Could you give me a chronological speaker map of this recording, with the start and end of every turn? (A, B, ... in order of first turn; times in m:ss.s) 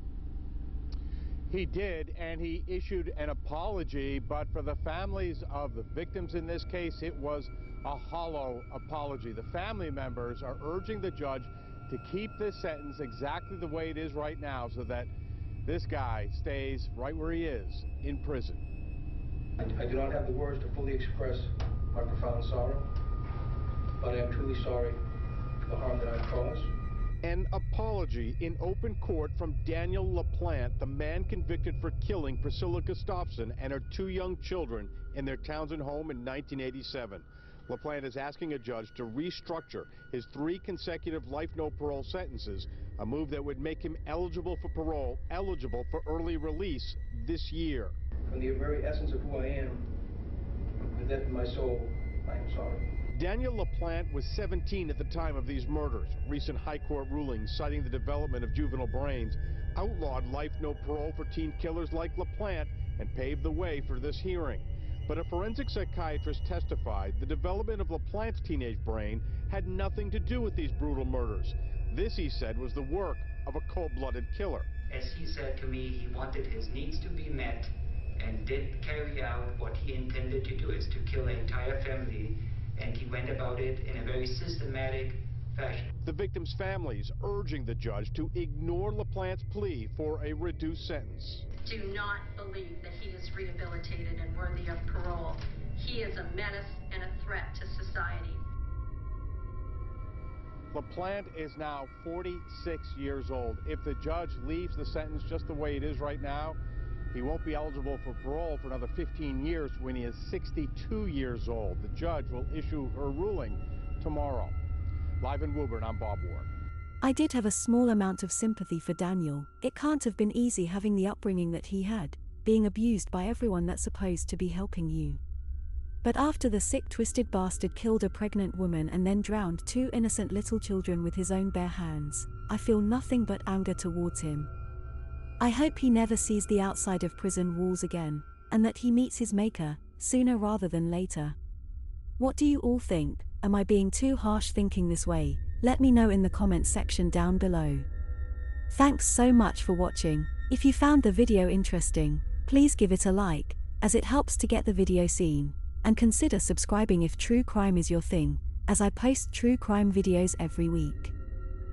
0:01.5-0:15.1 A
0:15.6-0:18.6 A
0:19.6-0:22.9 B
0:24.0-0:25.0 B
0:25.6-0:26.7 B
0:27.2-0:47.9 A
0:48.3-0:49.9 B
0:50.8-0:52.9 B
0:53.1-1:14.7 A
1:14.9-1:25.8 C
1:26.0-1:31.4 A
1:31.6-1:38.4 D
1:40.7-1:46.6 A
1:47.1-1:54.6 A
1:55.2-1:56.5 A
1:57.0-2:05.2 E
2:06.0-2:14.5 E
2:15.4-2:21.4 E
2:22.2-2:27.8 E
2:28.7-2:41.1 E